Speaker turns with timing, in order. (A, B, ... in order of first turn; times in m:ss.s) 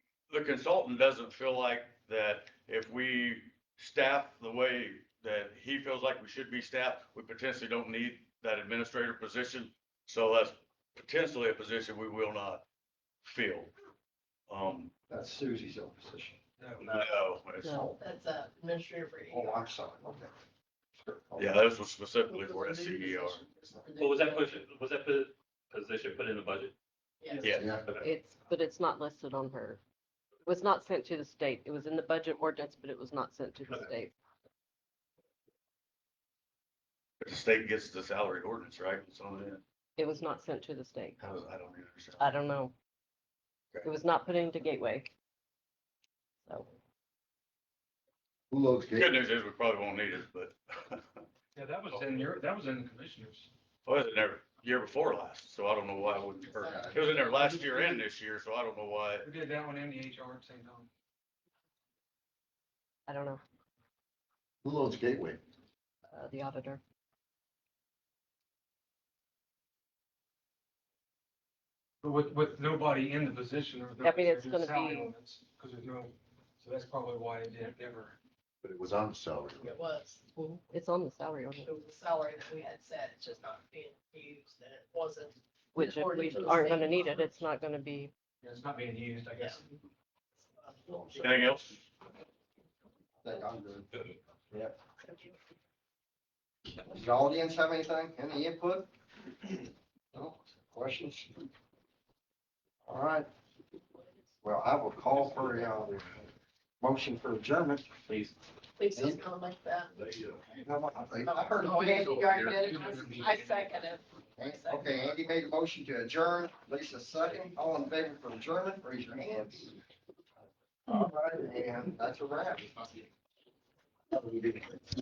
0:00.3-0:12.6 A
0:13.2-0:13.7 A
0:14.5-0:14.9 A
0:15.1-0:16.4 B
0:16.6-0:17.0 C
0:16.8-0:17.9 A
0:17.6-0:17.9 D
0:18.0-0:19.5 E
0:19.3-0:20.3 B
0:21.0-0:21.6 B
0:21.4-0:23.4 A
0:22.3-0:24.6 E
0:24.0-0:26.7 F
0:27.2-0:27.6 E
0:27.4-0:27.8 A
0:27.5-0:28.1 F
0:27.5-0:27.8 B
0:28.0-0:29.8 D
0:30.4-0:34.1 D
0:37.2-0:39.6 A
0:40.0-0:41.2 D
0:41.2-0:42.3 A
0:42.2-0:42.7 D
0:43.8-0:45.1 D
0:46.5-0:46.7 D
0:48.5-0:49.2 B
0:49.0-0:51.2 A
0:51.6-0:53.5 C
0:53.9-0:59.3 A
0:56.4-0:57.6 E
0:56.6-0:57.2 B
0:59.2-1:00.9 C
1:03.1-1:03.4 D
1:04.6-1:05.4 B
1:06.1-1:06.8 D
1:12.0-1:18.2 C
1:14.0-1:15.1 D
1:18.6-1:19.7 B
1:19.6-1:20.3 E
1:20.4-1:21.7 D
1:21.6-1:27.4 E
1:25.7-1:28.1 D
1:28.4-1:29.6 C
1:29.4-1:29.6 E
1:30.6-1:31.5 E
1:30.9-1:31.3 B
1:31.2-1:31.8 A
1:33.2-1:33.9 B
1:35.0-1:35.3 E
1:36.8-1:38.9 B
1:39.4-1:41.4 B
1:42.9-1:43.3 B
1:44.4-1:46.3 B
1:46.8-1:47.9 B
1:48.1-1:48.4 F
1:48.8-1:49.9 E
1:48.9-1:49.2 B
1:50.0-1:50.4 F
1:50.5-1:52.5 B
1:51.2-1:55.1 E
1:52.3-1:53.8 C
1:54.4-1:59.8 B
2:00.9-2:03.0 B
2:04.1-2:04.9 B